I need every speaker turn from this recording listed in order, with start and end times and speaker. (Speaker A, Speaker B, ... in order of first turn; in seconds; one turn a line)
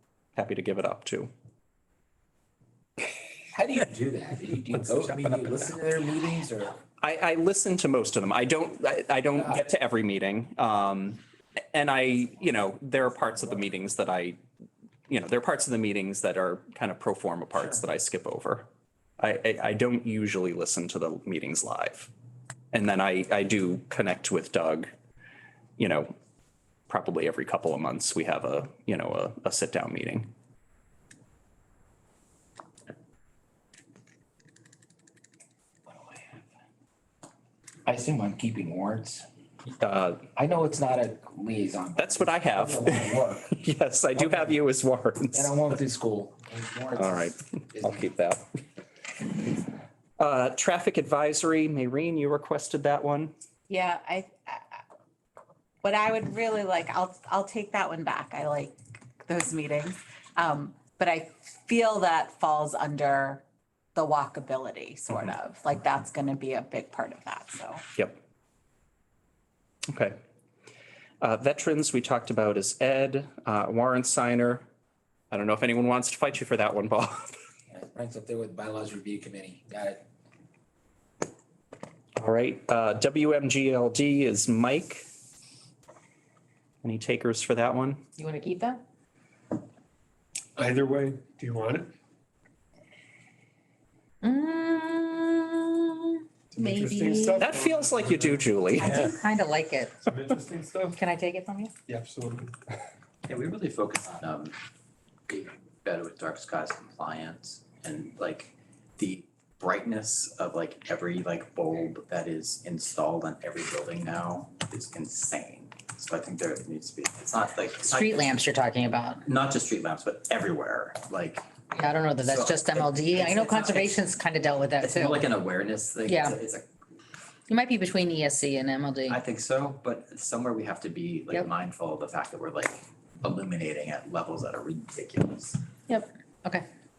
Speaker A: 0.3-1.3
Speaker B: 3.5-6.8
Speaker A: 7.0-11.2
Speaker A: 11.7-14.4
Speaker A: 15.1-18.7
Speaker A: 19.2-22.1
Speaker A: 22.7-24.9
Speaker A: 25.8-26.1
Speaker A: 26.9-30.3
Speaker B: 35.9-36.4
Speaker B: 37.9-39.2
Speaker A: 39.8-40.2
Speaker B: 40.4-43.5
Speaker A: 42.0-45.5
Speaker B: 44.1-44.6
Speaker B: 45.3-48.1
Speaker A: 47.0-48.4
Speaker A: 50.2-53.3
Speaker C: 53.7-54.6
Speaker C: 55.8-63.4
Speaker C: 63.9-67.8
Speaker A: 69.9-70.2
Speaker A: 71.2-74.6
Speaker A: 75.3-77.3
Speaker B: 77.7-80.0
Speaker A: 82.2-85.0
Speaker A: 86.8-88.0
Speaker D: 88.2-88.8
Speaker E: 90.5-91.9
Speaker D: 94.2-97.5
Speaker E: 96.5-99.2
Speaker A: 97.4-99.1
Speaker D: 98.8-100.0
Speaker E: 100.0-101.0
Speaker D: 100.9-101.7
Speaker E: 101.9-102.5
Speaker F: 103.3-104.5
Speaker F: 105.3-118.4
Speaker D: 117.8-119.2
Speaker F: 119.2-121.4
Speaker D: 121.7-125.3
Speaker F: 122.2-124.0
Speaker F: 124.8-126.7
Speaker D: 126.0-126.4
Speaker D: 127.5-129.2
Speaker F: 129.1-135.6
Speaker D: 135.9-136.7